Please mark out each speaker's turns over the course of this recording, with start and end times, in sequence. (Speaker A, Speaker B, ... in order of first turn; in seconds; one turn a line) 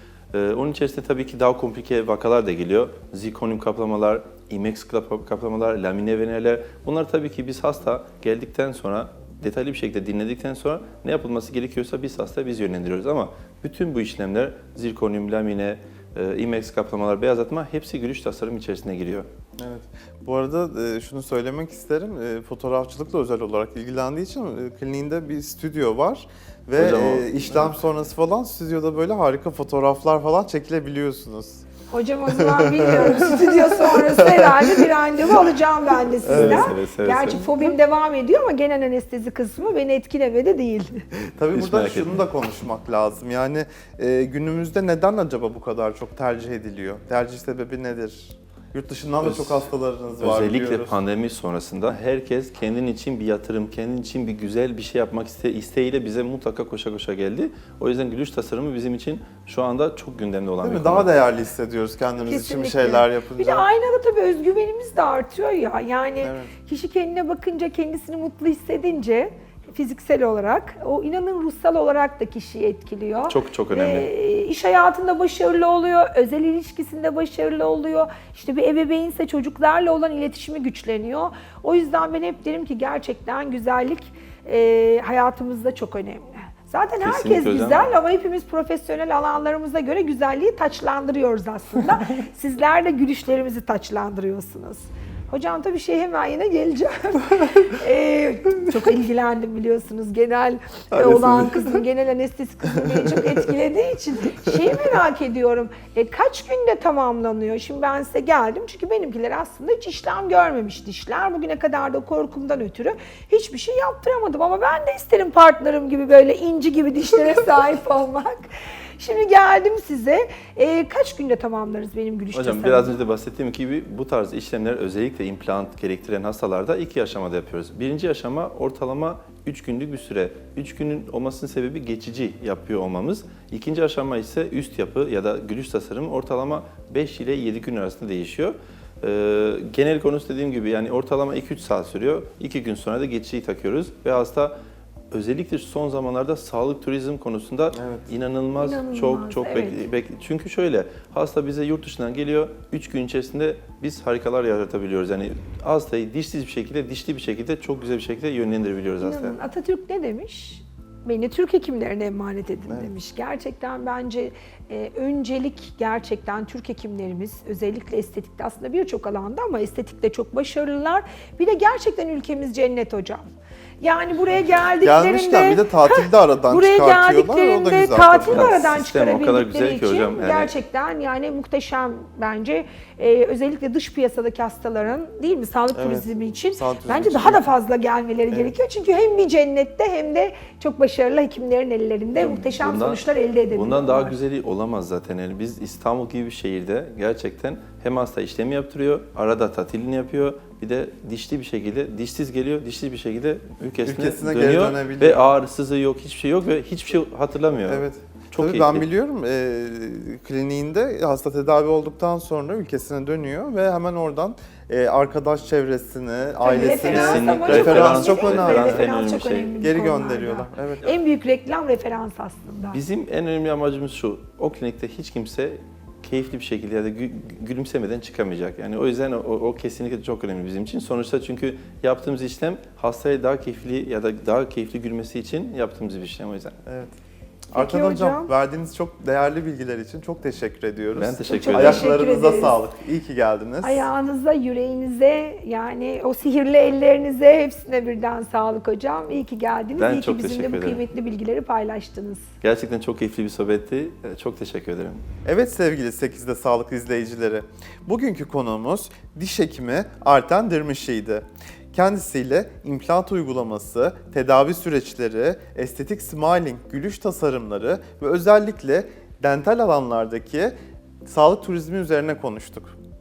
Speaker A: 0.3-19.3
Speaker B: 19.6-31.6
Speaker A: 26.8-27.8
Speaker C: 31.9-41.0
Speaker B: 32.4-34.8
Speaker B: 36.2-36.7
Speaker A: 36.3-37.5
Speaker B: 41.4-51.0
Speaker A: 41.5-42.2
Speaker A: 49.2-61.1
Speaker B: 60.6-63.7
Speaker C: 62.2-118.5
Speaker B: 66.2-66.5
Speaker A: 73.3-74.1
Speaker A: 87.0-87.8
Speaker B: 101.0-101.8
Speaker C: 119.0-123.0
Speaker A: 122.3-144.5
Speaker A: 145.1-159.4
Speaker B: 147.8-148.1
Speaker C: 148.5-149.9
Speaker C: 159.0-194.2
Speaker B: 174.8-178.6
Speaker A: 178.2-180.5
Speaker B: 185.7-187.5
Speaker A: 192.2-208.9
Speaker B: 203.8-205.3
Speaker B: 207.6-218.9
Speaker C: 216.4-222.8
Speaker A: 216.6-219.5
Speaker B: 219.6-220.9
Speaker A: 222.7-236.6
Speaker B: 236.7-236.9
Speaker B: 237.5-243.9
Speaker C: 237.5-238.3
Speaker A: 240.9-242.0
Speaker C: 241.3-242.6
Speaker C: 243.6-252.3
Speaker A: 249.8-250.8
Speaker A: 252.4-255.0
Speaker B: 255.3-270.5
Speaker B: 271.1-272.8